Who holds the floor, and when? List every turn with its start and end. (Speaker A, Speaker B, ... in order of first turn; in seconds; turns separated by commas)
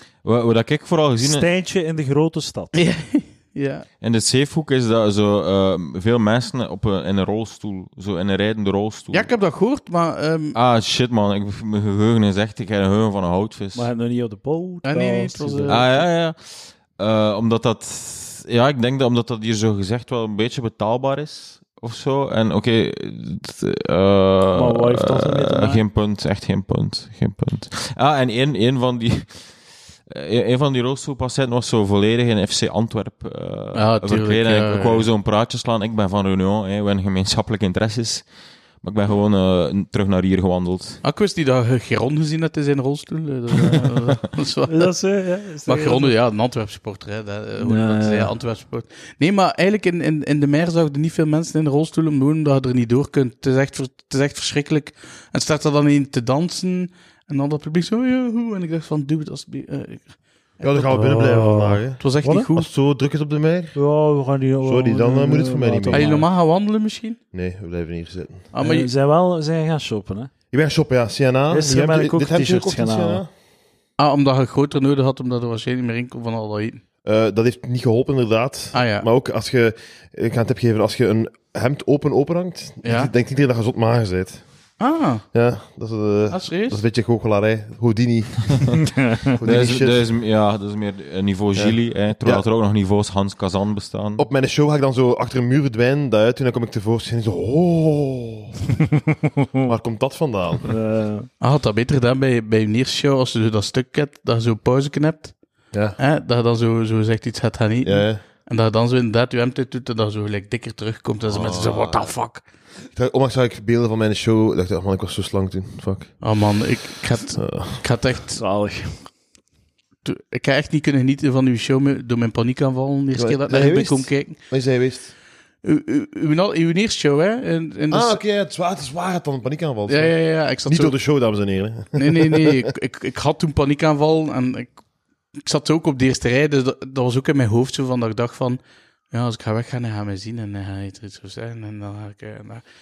Speaker A: 0.2-1.5, Speaker B: 1.2-2.7, Speaker C: 2.7-3.9, Speaker A: 4.0-9.3, Speaker C: 9.1-10.6, Speaker A: 10.5-13.9, Speaker B: 13.7-15.9, Speaker C: 14.8-15.9, Speaker A: 15.7-38.3, Speaker B: 24.5-25.8, Speaker C: 33.7-35.1, Speaker A: 38.8-41.0, Speaker C: 41.0-44.9, Speaker B: 44.7-46.1, Speaker C: 45.6-60.9, Speaker B: 47.6-48.3, Speaker D: 60.6-62.0, Speaker B: 60.8-62.5, Speaker C: 62.0-62.7, Speaker D: 62.5-63.8, Speaker B: 63.7-66.2, Speaker D: 64.6-66.1, Speaker C: 65.9-67.2, Speaker D: 67.3-68.5, Speaker C: 68.5-68.9, Speaker B: 68.6-70.3, Speaker D: 70.5-73.3, Speaker B: 71.5-73.2, Speaker C: 74.0-76.8, Speaker D: 77.0-84.4, Speaker C: 78.7-79.1, Speaker C: 82.8-83.1, Speaker C: 84.8-85.2, Speaker D: 85.3-90.1, Speaker C: 86.3-86.8, Speaker A: 89.4-94.2, Speaker D: 91.5-92.4, Speaker D: 94.2-98.6, Speaker D: 99.6-100.8, Speaker B: 100.7-101.3, Speaker C: 101.4-105.3, Speaker D: 105.7-106.0, Speaker C: 106.0-112.4, Speaker D: 107.8-108.2, Speaker D: 111.3-112.2, Speaker D: 112.9-116.2, Speaker C: 116.2-118.4, Speaker D: 117.3-118.0, Speaker B: 118.3-119.1, Speaker C: 120.0-124.4, Speaker D: 123.1-125.1, Speaker C: 125.6-128.2, Speaker D: 127.9-132.7, Speaker C: 129.9-130.9, Speaker C: 131.9-134.8, Speaker C: 135.3-138.6, Speaker C: 139.1-142.6